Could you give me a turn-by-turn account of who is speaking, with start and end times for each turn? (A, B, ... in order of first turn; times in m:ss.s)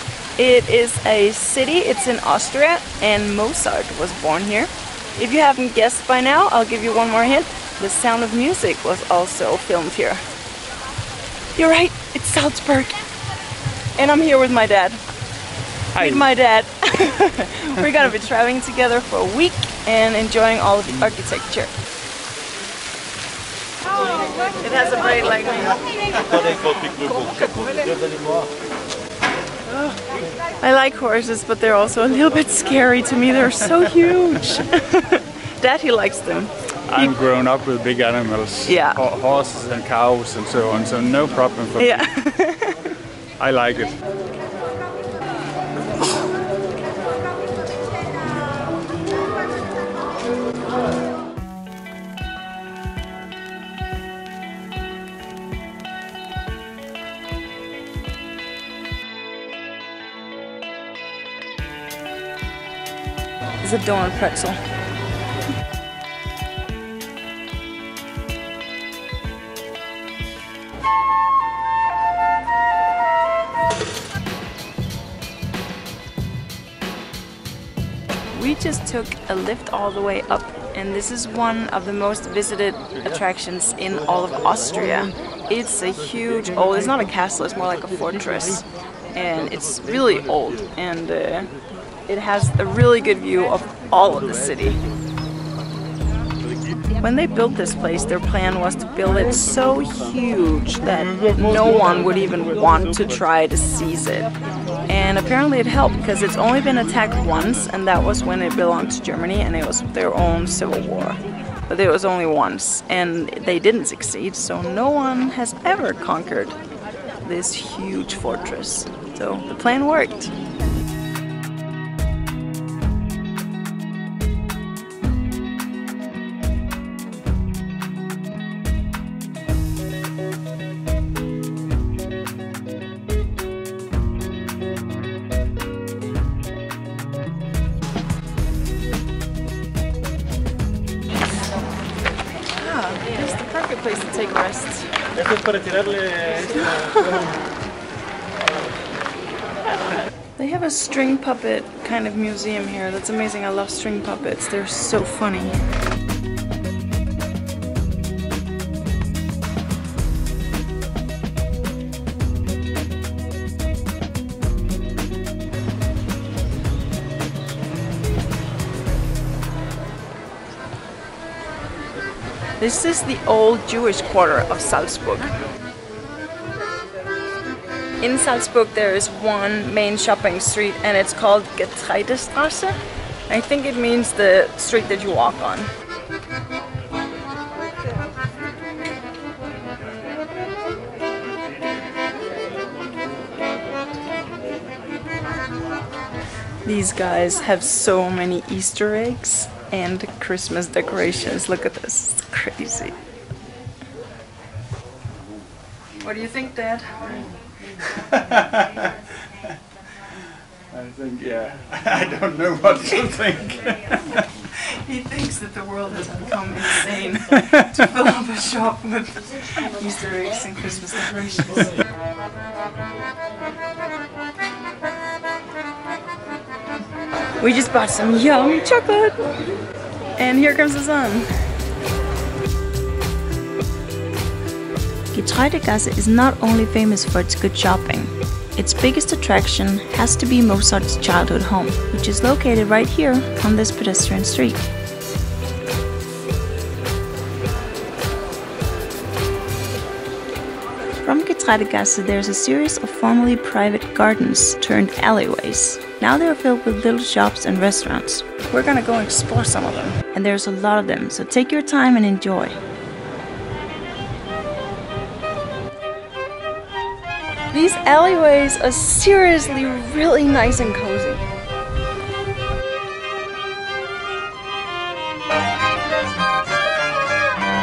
0:00.4-0:10.2 A
0:11.6-0:13.0 A
0:14.0-0:15.0 A
0:16.0-0:16.2 B
0:16.0-0:21.7 A
0:24.5-0:26.8 A
0:26.8-0:28.3 C
0:29.7-0:30.0 A
0:30.6-0:37.1 A
0:36.9-0:42.1 B
0:38.7-0:39.0 A
0:41.8-0:43.0 A
0:43.4-0:44.0 B
1:03.6-1:04.6 A
1:18.3-1:31.5 A
1:32.1-1:34.8 A
1:37.0-1:44.3 A
1:44.9-1:56.6 A
1:57.2-2:00.3 A
2:22.5-2:25.0 A
2:25.8-2:26.3 C
2:26.4-2:27.2 A
2:30.4-2:35.6 A
2:52.6-2:55.3 A
2:58.0-3:05.7 A
3:16.6-3:23.0 A
3:26.0-3:27.3 A
3:27.9-3:28.9 B
3:30.7-3:34.2 B
3:34.4-3:41.8 A
3:47.4-3:49.2 A
3:50.2-3:51.3 A
3:55.1-4:04.7 A
4:11.0-4:22.6 A
4:27.5-4:31.3 A